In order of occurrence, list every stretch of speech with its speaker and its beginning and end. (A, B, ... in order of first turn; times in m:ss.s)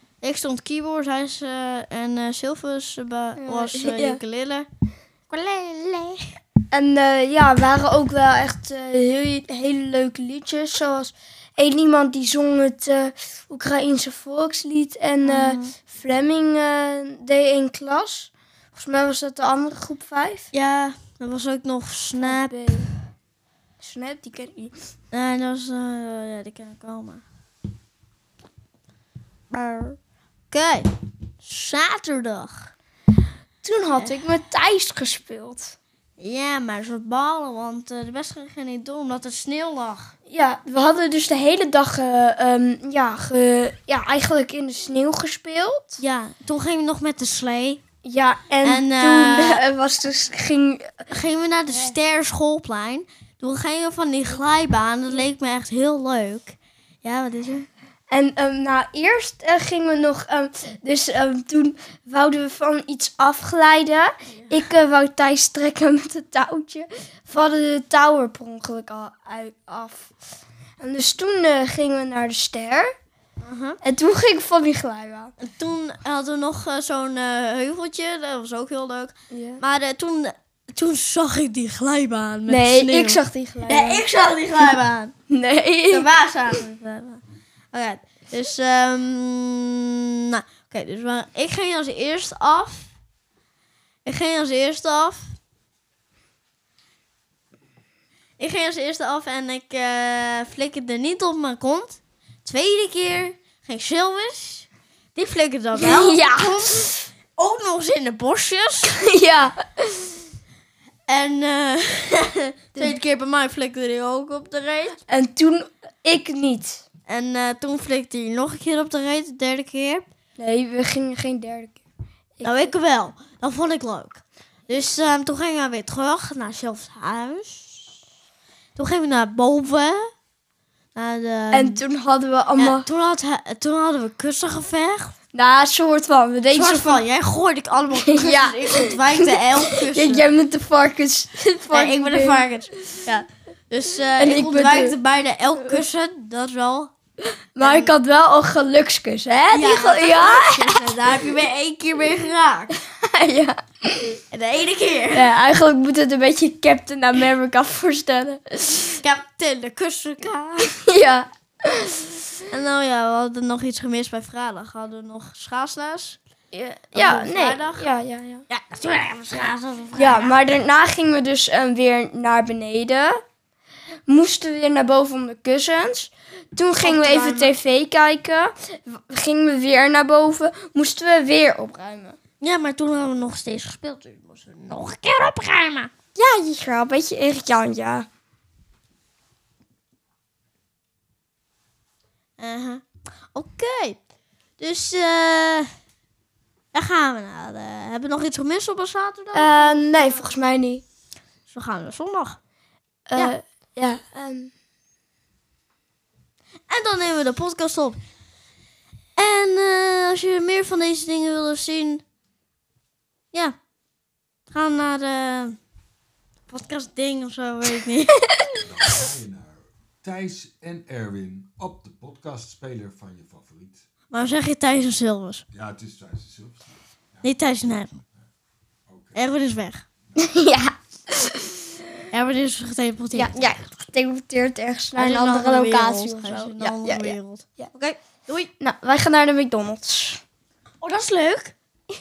0:00.2-0:04.7 A
0:03.4-0:04.2 B
0:05.3-0:06.3 A
0:06.7-0:20.5 B
0:15.2-0:15.7 A
0:20.5-0:22.9 A
0:22.2-0:22.9 B
0:23.8-0:24.7 B
0:25.1-0:27.2 A
0:29.5-0:30.0 A
0:30.5-0:30.9 A
0:31.4-0:32.7 A
0:33.6-0:35.8 B
0:36.2-0:40.1 A
0:40.3-0:46.0 B
0:46.0-0:47.8 A
0:48.0-0:51.1 B
0:48.6-0:49.6 A
0:51.1-0:57.7 A
0:58.1-1:10.1 B
1:10.8-1:12.9 B
1:13.4-1:13.8 A
1:13.8-1:15.3 B
1:15.4-1:25.1 A
1:19.3-1:19.6 B
1:22.5-1:24.0 B
1:25.3-1:26.6 B
1:25.9-1:32.9 A
1:34.0-1:35.4 A
1:38.4-1:49.0 A
1:45.8-1:47.0 B
1:48.9-1:50.2 B
1:51.1-1:55.0 A
1:55.1-1:56.8 B
1:57.1-2:00.1 A
2:00.4-2:01.8 B
2:02.4-2:02.7 B
2:02.4-2:07.9 A
2:08.8-2:10.1 A
2:11.0-2:11.8 A
2:11.5-2:12.9 B
2:12.6-2:15.1 A
2:15.3-2:17.0 B
2:16.5-2:20.2 A
2:18.0-2:22.7 B
2:21.7-2:26.9 A
2:24.2-2:25.0 B
2:27.6-2:30.9 B
2:27.6-2:27.9 A
2:29.5-2:32.7 A
2:32.8-2:34.2 B
2:34.3-2:35.3 A
2:35.1-2:39.0 B
2:39.0-2:40.7 A
2:40.8-2:42.3 B
2:42.5-2:46.2 A
2:46.5-2:48.4 B
2:46.9-2:47.9 A
2:48.5-2:50.4 A
2:50.0-2:53.2 B
2:54.1-3:02.2 B
2:56.8-2:57.5 A
3:02.4-3:05.9 A
3:06.2-3:08.1 B
3:12.4-3:14.0 A
3:14.6-3:15.7 A
3:16.7-3:20.3 A
3:19.3-3:20.8 B
3:21.5-3:22.4 A
3:23.1-3:24.5 B
3:26.7-3:28.0 A
3:29.2-3:32.0 A
3:34.5-3:35.6 A
3:36.5-3:38.3 A
3:38.4-3:38.9 B
3:38.6-3:43.8 C
3:44.1-3:45.4 A
3:45.5-3:47.3 C
3:47.2-3:48.0 A
3:48.9-3:49.2 C
3:49.2-3:49.8 A
3:50.2-3:51.8 B
3:52.1-3:53.4 A
3:53.1-3:57.7 B
3:55.0-3:58.5 A
3:58.6-4:00.2 B
4:00.8-4:01.5 A